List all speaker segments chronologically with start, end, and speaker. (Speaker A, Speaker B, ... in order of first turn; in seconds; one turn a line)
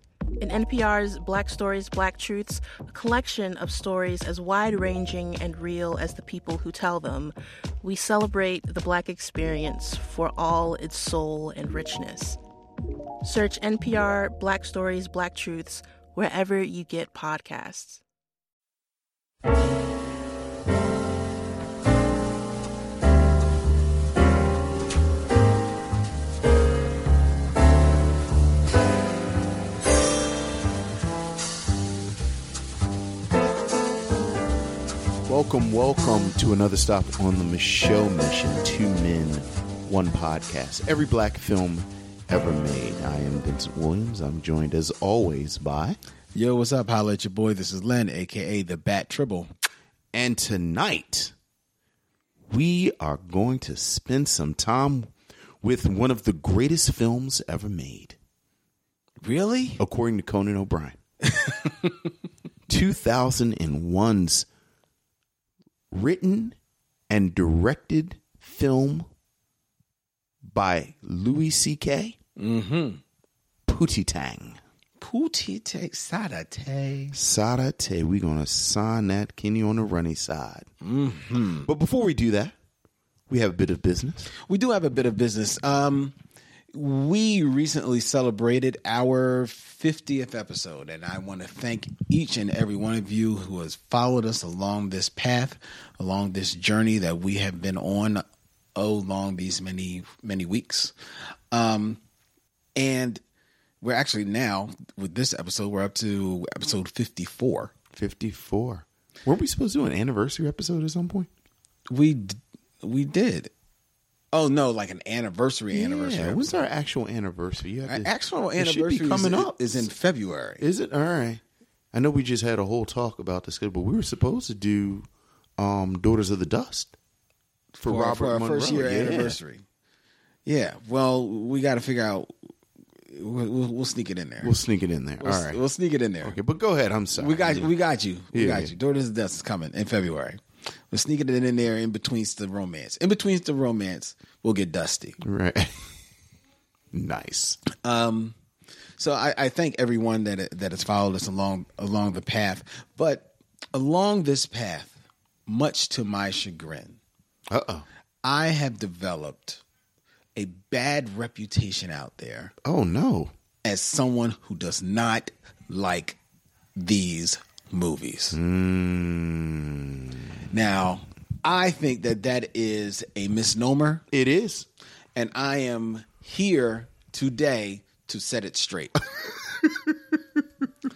Speaker A: 0.4-12.4
Speaker A: 13.2-18.0
Speaker B: 35.3-46.0
Speaker C: 46.3-49.5
Speaker B: 50.1-51.3
Speaker B: 52.5-55.1
Speaker B: 55.6-58.2
Speaker C: 59.2-59.8
Speaker B: 59.8-61.0
Speaker C: 61.3-61.9
Speaker B: 62.7-64.5
Speaker B: 65.9-66.5
Speaker B: 67.1-69.1
Speaker B: 70.4-72.2
Speaker C: 72.4-73.0
Speaker B: 73.7-74.6
Speaker C: 75.0-77.2
Speaker B: 77.1-80.7
Speaker C: 80.8-81.7
Speaker B: 81.6-82.5
Speaker B: 83.3-84.3
Speaker C: 84.4-86.1
Speaker C: 86.7-98.2
Speaker C: 98.8-100.9
Speaker C: 101.5-102.0
Speaker C: 102.8-103.2
Speaker C: 103.8-107.7
Speaker B: 107.9-111.3
Speaker C: 111.9-113.5
Speaker C: 114.3-116.7
Speaker B: 115.7-119.9
Speaker C: 117.9-120.6
Speaker B: 120.6-121.4
Speaker B: 121.9-125.1
Speaker B: 125.6-126.9
Speaker B: 127.7-129.4
Speaker C: 127.8-129.6
Speaker C: 130.5-132.3
Speaker C: 133.1-134.5
Speaker B: 134.4-135.6
Speaker C: 135.2-136.4
Speaker B: 136.2-137.7
Speaker C: 137.2-140.4
Speaker B: 138.3-138.7
Speaker C: 140.9-145.2
Speaker B: 145.2-145.7
Speaker B: 146.9-147.6
Speaker C: 147.7-148.3
Speaker C: 149.0-157.0
Speaker B: 157.5-157.9
Speaker C: 158.2-159.6
Speaker C: 160.4-162.5
Speaker B: 162.6-163.3
Speaker C: 163.6-166.2
Speaker C: 166.8-168.4
Speaker B: 168.3-170.3
Speaker C: 170.5-174.0
Speaker B: 174.1-174.7
Speaker C: 175.2-179.0
Speaker B: 179.7-179.9